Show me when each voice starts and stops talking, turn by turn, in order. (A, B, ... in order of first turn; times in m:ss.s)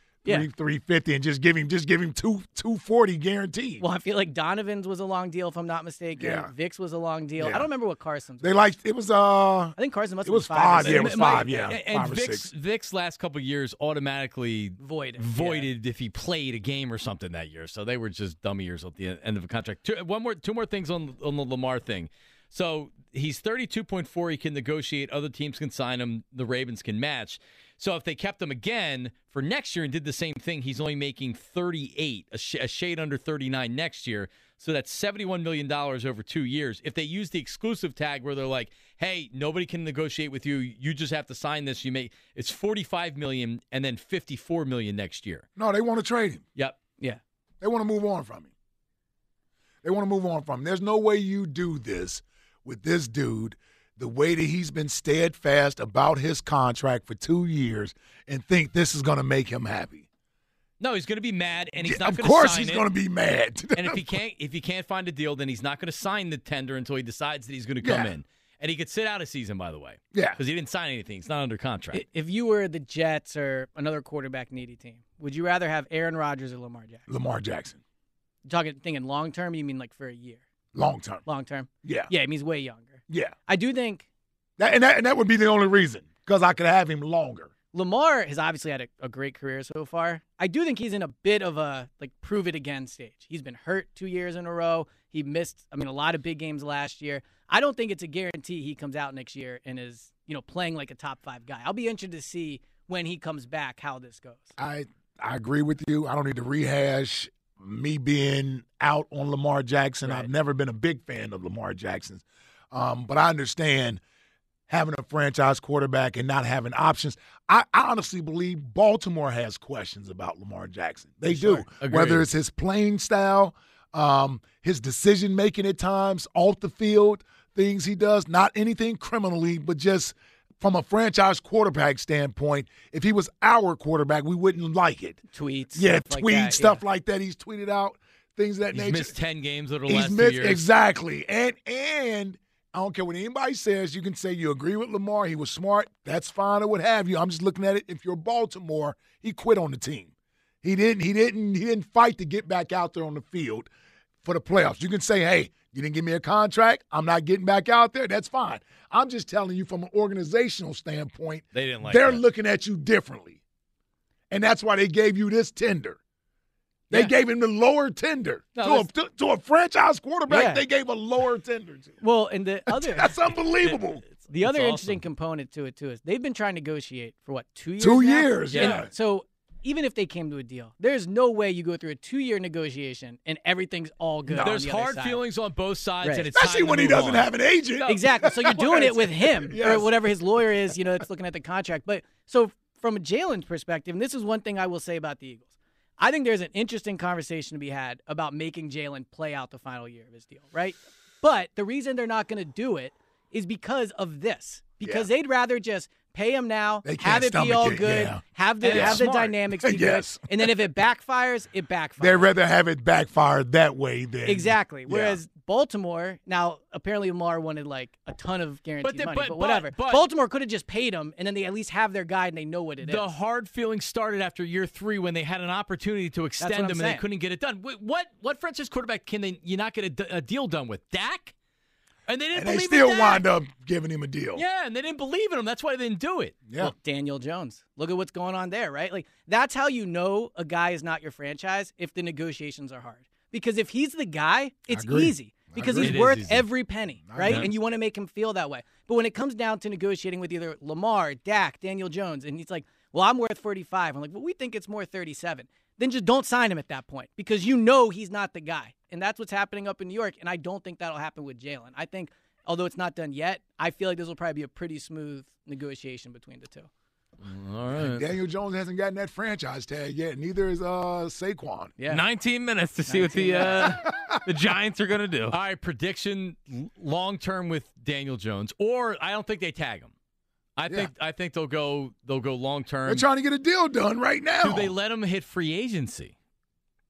0:00.2-0:03.8 A
0:03.8-0:08.6 B
0:06.2-0:06.5 A
0:07.4-0:07.7 A
0:08.4-0:12.5 A
0:09.8-0:11.7 B
0:10.8-0:45.5 C
0:14.8-0:15.7 B
0:45.6-0:46.4 A
0:47.6-0:48.5 A
0:49.8-1:00.1 A
1:00.8-1:02.9 C
1:01.8-1:04.1 A
1:03.8-1:12.0 C
1:07.8-1:08.1 A
1:10.1-1:10.4 A
1:11.9-1:17.0 B
1:17.1-1:17.8 A
1:18.5-1:20.4 B
1:20.7-1:21.2 A
1:21.2-1:24.1 B
1:21.8-1:22.1 A
1:23.1-1:23.3 A
1:24.6-1:27.5 A
1:27.7-1:44.5 B
1:44.6-1:54.0 A
1:50.0-1:50.3 B
1:54.7-2:15.2 A
2:01.3-2:02.2 C
2:15.3-2:16.8 B
2:15.8-2:19.1 A
2:18.7-2:20.6 C
2:19.9-2:30.1 A
2:30.6-2:33.7 A
2:34.2-2:43.4 A
2:41.5-2:42.2 C
2:44.3-2:46.0 A
2:46.9-2:52.0 A
2:48.5-2:48.9 B
2:50.3-2:50.6 B
2:52.0-2:53.2 B
2:52.7-2:54.0 A
2:53.7-2:55.0 C
2:54.3-3:05.2 B
2:57.8-2:58.9 A
2:58.5-2:58.9 C
3:04.3-3:04.5 A
3:04.4-3:07.3 C
3:06.0-3:06.3 B
3:06.3-3:09.9 A
3:07.9-3:32.3 B
3:24.8-3:25.1 A
3:26.8-3:30.6 A
3:28.6-3:29.4 C
3:32.0-3:35.2 A
3:34.2-3:43.1 B
3:38.8-3:40.1 C
3:42.8-3:51.3 C
3:46.4-3:47.0 B
3:52.1-3:53.3 C
3:52.3-3:54.4 A
3:54.4-3:56.4 C
3:56.5-3:56.7 A
3:56.6-4:26.7 B
4:04.7-4:06.0 A
4:05.8-4:06.5 C
4:07.1-4:07.5 A
4:27.2-4:28.1 C
4:27.7-4:31.7 A
4:31.8-4:32.0 B
4:31.9-4:35.4 D
4:32.9-4:33.8 B
4:33.8-4:34.2 A
4:35.3-4:39.9 C
4:40.6-4:43.0 C
4:42.9-4:44.7 A
4:44.4-4:46.1 C